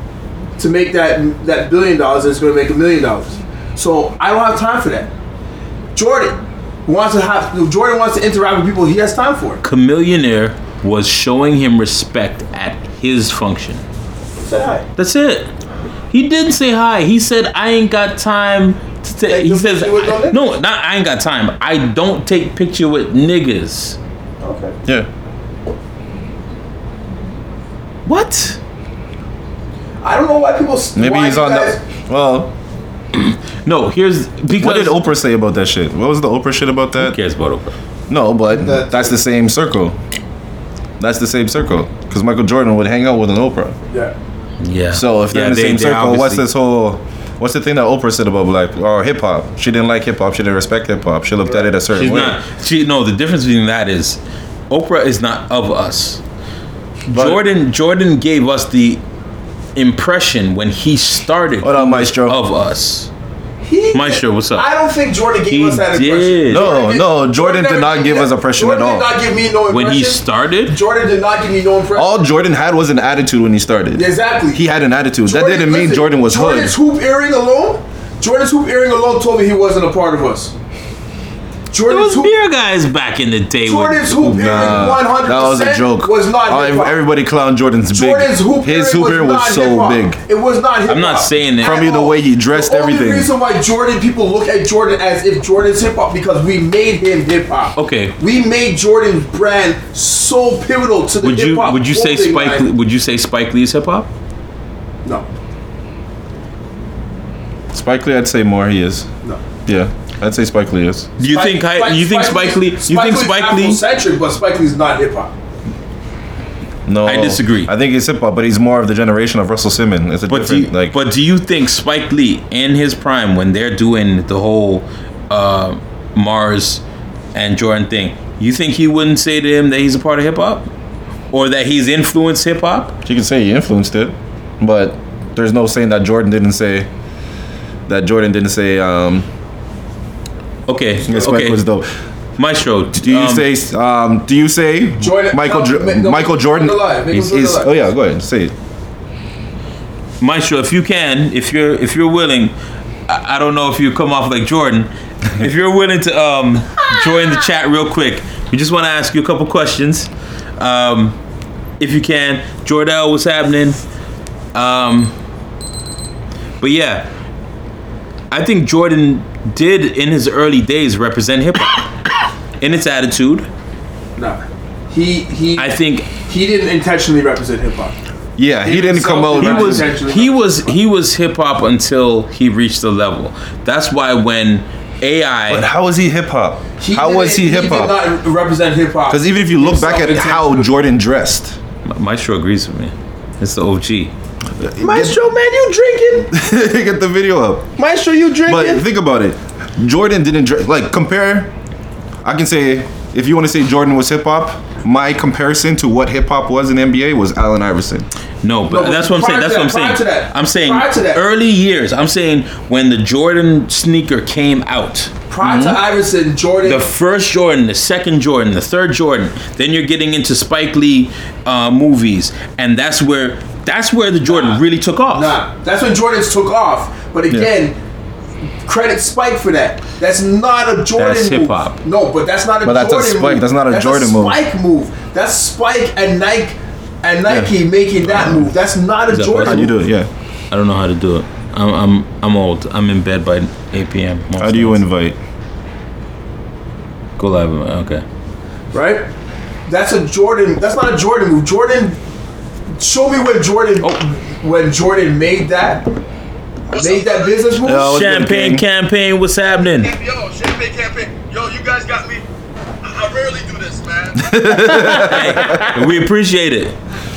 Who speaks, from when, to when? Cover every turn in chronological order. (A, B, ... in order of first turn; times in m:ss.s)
0:00.6-0:05.1 A
0:05.9-0:09.6 A
0:09.6-0:13.8 B
0:14.4-0:14.8 A
0:15.0-0:15.5 B
0:16.1-0:24.0 B
0:19.3-0:20.4 A
0:24.4-0:24.8 A
0:28.0-0:28.6 B
0:30.0-0:31.8 A
0:30.9-0:32.5 C
0:33.6-0:35.0 B
0:34.5-0:37.2 C
0:37.0-0:37.7 B
0:38.1-0:40.0 C
0:38.5-0:39.2 A
0:41.0-0:43.8 C
0:43.9-0:44.1 A
0:44.6-0:46.4 B
0:44.9-0:52.4 C
0:51.4-0:51.7 A
0:51.9-0:56.2 B
0:57.1-0:59.0 B
0:57.1-0:57.4 C
0:59.8-1:03.1 B
1:01.6-1:02.4 C
1:03.6-1:12.2 A
1:03.9-1:04.7 B
1:05.5-1:06.6 B
1:06.5-1:09.1 C
1:09.7-1:10.8 B
1:11.9-1:16.7 C
1:13.9-1:14.6 A
1:15.2-1:20.5 A
1:21.7-1:22.3 A
1:21.9-1:25.0 B
1:23.6-1:27.0 A
1:24.3-1:30.2 C
1:27.9-1:42.7 A
1:30.8-1:31.9 B
1:31.6-1:33.3 C
1:37.8-1:38.1 B
1:41.2-1:44.1 B
1:47.7-1:49.1 C
1:49.6-1:51.1 C
1:51.2-1:53.8 B
1:51.2-1:55.3 A
1:56.9-2:01.0 C
1:57.0-1:57.7 B
2:00.3-2:06.8 B
2:07.3-2:10.7 B
2:11.3-2:13.0 B
2:13.0-2:16.9 C
2:17.9-2:19.3 C
2:20.7-2:21.6 B
2:21.0-2:21.9 C
2:22.4-2:23.5 B
2:23.0-2:28.5 C
2:25.0-2:27.8 A
2:30.2-2:32.5 B
2:33.1-2:41.2 B
2:41.8-2:43.8 B
2:44.5-2:45.1 B
2:46.6-2:47.1 B
2:48.3-2:51.9 B
2:52.6-2:53.5 B
2:54.2-2:58.0 A
2:55.6-2:56.1 B
2:58.4-2:59.9 C
2:58.6-3:00.7 A
2:59.3-3:05.7 B
3:05.5-3:08.0 C
3:06.8-3:10.7 A
3:09.1-3:11.6 C
3:11.8-3:14.1 B
3:14.6-3:15.2 C
3:14.8-3:16.3 A
3:16.3-3:17.7 C
3:17.8-3:18.8 A
3:18.4-3:21.5 C
3:22.2-3:28.1 C
3:28.4-3:35.1 B
3:28.7-3:31.2 A
3:35.3-3:36.8 A
3:35.4-3:35.8 C
3:36.6-3:45.3 B
3:44.2-3:47.8 A
3:48.6-3:59.7 A
3:50.9-3:51.8 B
3:52.6-3:54.4 C
3:57.3-3:58.5 C
3:59.1-3:59.7 B
3:59.4-4:00.1 C
4:00.5-4:04.8 B
4:04.4-4:05.2 C
4:07.2-4:08.0 B
4:08.7-4:09.1 A
4:09.7-4:12.0 A
4:12.8-4:15.8 A
4:16.7-4:17.5 D
4:16.7-4:18.0 A
4:17.6-4:18.6 C
4:17.7-4:19.9 B
4:19.6-4:22.2 D
4:22.8-4:24.4 D
4:24.2-4:25.7 C
4:24.6-4:26.8 B
4:25.4-4:25.7 A